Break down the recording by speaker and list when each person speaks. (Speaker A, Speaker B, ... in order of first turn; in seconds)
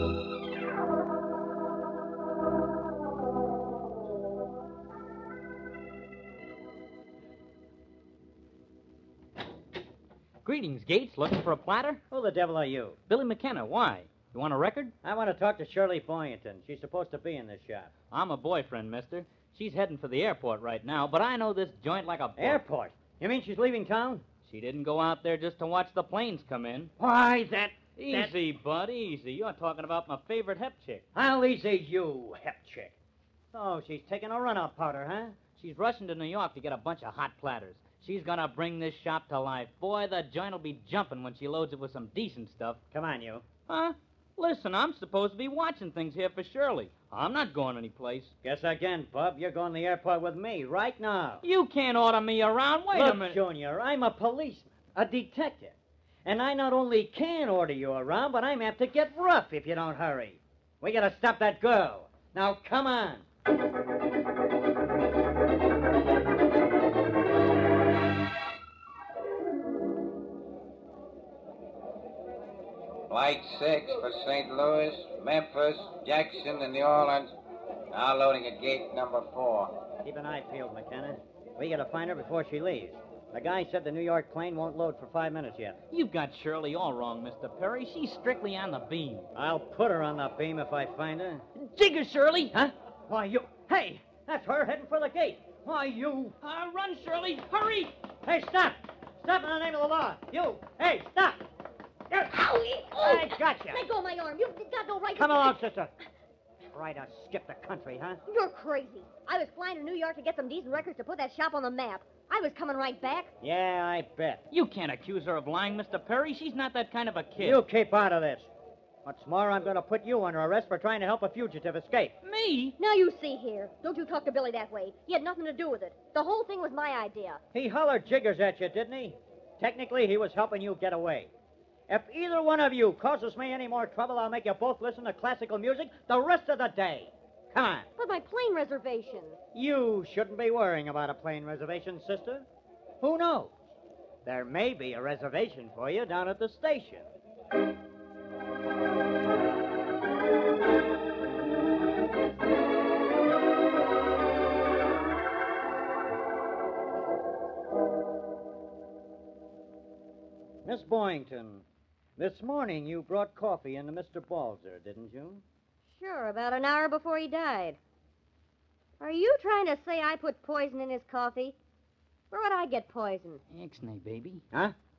Speaker A: 10.4-12.0, 13.1-14.9, 18.1-22.6, 24.4-26.9, 28.0-31.0, 35.5-42.8, 43.7-48.3, 51.4-53.4, 85.9-89.3, 91.5-92.5, 96.4-98.0, 114.5-117.6, 122.2-122.8, 173.5-174.4
Speaker B: 12.1-13.0, 15.0-17.9, 22.4-24.3, 27.0-28.3, 31.1-33.0, 33.5-35.4, 42.9-43.5, 48.4-51.4, 52.9-63.2, 80.0-85.8, 89.3-91.5, 92.5-96.3, 98.2-101.4, 102.9-103.8, 105.2-105.9, 106.7-108.2, 113.4-114.4, 117.4-118.5, 119.0-122.2, 127.5-131.3, 131.9-137.9, 139.5-142.4, 143.0-143.5, 144.2-147.1, 160.6-161.6, 162.2-165.4
Speaker C: 73.1-77.3, 77.9-79.8
Speaker D: 102.2-105.5, 108.3-113.3, 122.8-127.4, 138.0-139.4, 165.9-167.8, 169.0-171.6, 172.3-173.4